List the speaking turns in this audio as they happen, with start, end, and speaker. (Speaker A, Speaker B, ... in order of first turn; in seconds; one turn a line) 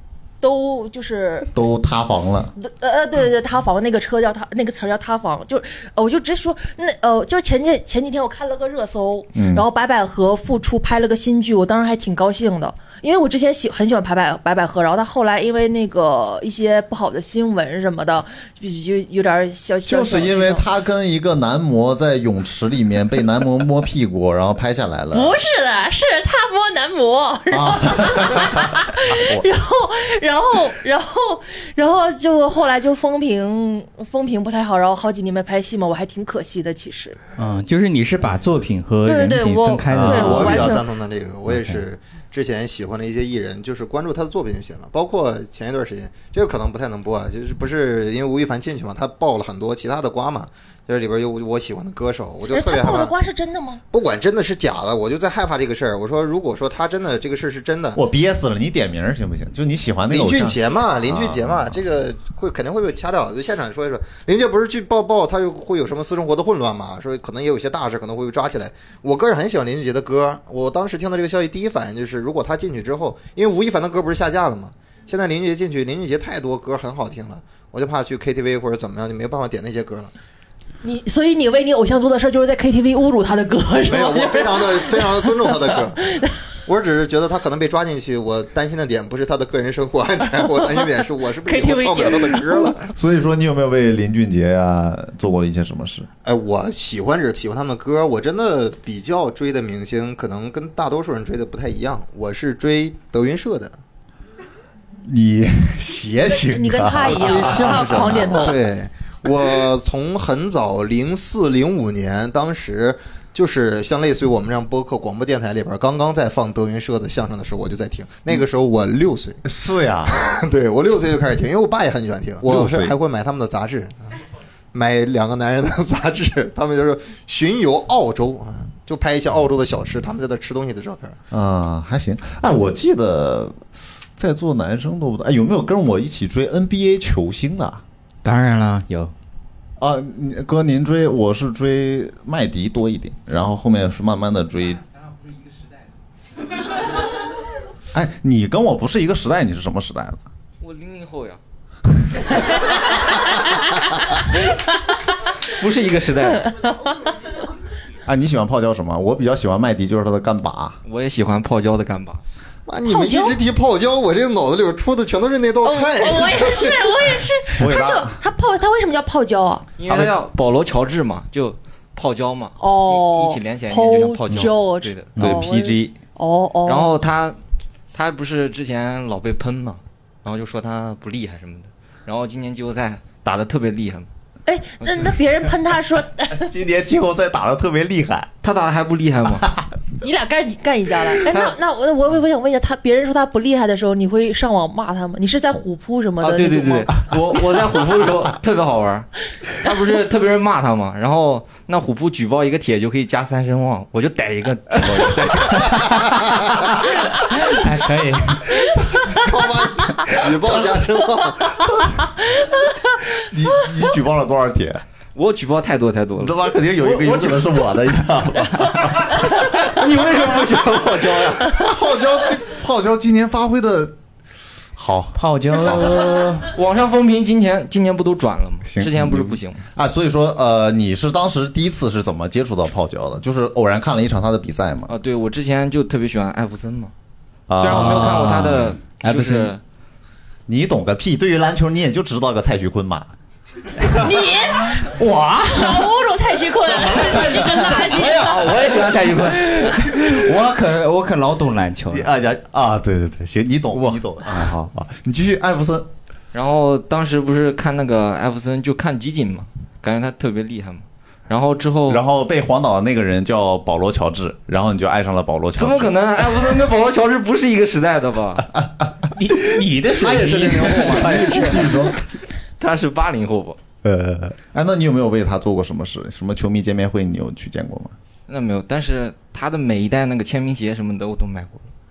Speaker A: 0.4-1.5
Speaker B: 1.5-2.5
Speaker A: 2.6-20.6
Speaker B: 9.3-9.6
Speaker B: 19.9-25.3
Speaker A: 25.1-37.2
Speaker B: 27.5-29.4
Speaker C: 37.4-40.7
Speaker A: 39.0-40.8
Speaker B: 39.9-40.8
Speaker D: 40.1-53.1
Speaker C: 41.5-41.8
Speaker A: 52.5-53.8
Speaker D: 53.9-58.0
Speaker B: 57.9-61.8
Speaker D: 60.1-80.1
Speaker A: 80.8-86.3
Speaker D: 83.8-86.0
Speaker D: 86.7-92.9
Speaker A: 91.5-92.7
Speaker B: 92.9-96.1
Speaker D: 96.2-103.8
Speaker B: 105.0-108.5
Speaker A: 106.5-108.6
Speaker D: 107.0-119.4
Speaker B: 119.4-120.4
Speaker D: 120.1-124.1
Speaker B: 122.4-122.9
Speaker D: 124.7-131.2
Speaker B: 131.3-133.6
Speaker B: 134.2-137.8
Speaker C: 138.2-139.1
Speaker B: 139.8-144.8
Speaker B: 147.9-150.2
Speaker E: 150.6-151.4
Speaker E: 155.4-156.6
Speaker B: 158.1-160.8
Speaker E: 160.8-162.2
Speaker D: 162.7-167.0
Speaker A: 162.8-163.4
Speaker A: 165.6-169.6
Speaker B: 167.6-168.2
Speaker E: 169.8-175.1
Speaker B: 169.9-170.1
Speaker A: 172.6-176.9
Speaker B: 175.2-175.9
Speaker E: 176.7-177.4
Speaker E: 177.9-184.1
Speaker A: 184.4-186.5
Speaker E: 184.8-185.1
Speaker B: 186.3-188.3
Speaker E: 188.4-189.5
Speaker B: 189.4-189.7
Speaker A: 190.0-197.1
Speaker E: 191.3-191.5
Speaker E: 196.2-206.4
Speaker B: 204.8-205.2
Speaker C: 205.5-206.2
Speaker C: 207.1-209.1
Speaker D: 209.1-211.6
Speaker B: 213.2-214.8
Speaker E: 215.1-217.5
Speaker B: 216.2-219.2
Speaker E: 219.0-221.6
Speaker B: 220.8-224.0
Speaker B: 224.8-226.2
Speaker C: 225.2-226.5
Speaker E: 226.5-229.6
Speaker B: 228.6-234.9
Speaker E: 234.9-236.9
Speaker B: 237.5-238.7
Speaker E: 237.6-239.6
Speaker C: 237.8-239.5
Speaker B: 240.5-243.1
Speaker A: 244.0-248.4
Speaker C: 244.8-245.9
Speaker D: 246.7-248.1
Speaker C: 247.0-247.5
Speaker E: 247.9-249.4
Speaker C: 248.0-252.1
Speaker B: 251.9-255.9
Speaker E: 256.3-262.0
Speaker B: 261.9-266.2
Speaker E: 265.6-268.5
Speaker B: 268.5-269.7
Speaker C: 269.1-271.2
Speaker D: 269.9-271.9
Speaker B: 270.4-272.0
Speaker E: 272.6-273.6
Speaker B: 273.8-277.9
Speaker E: 278.3-281.7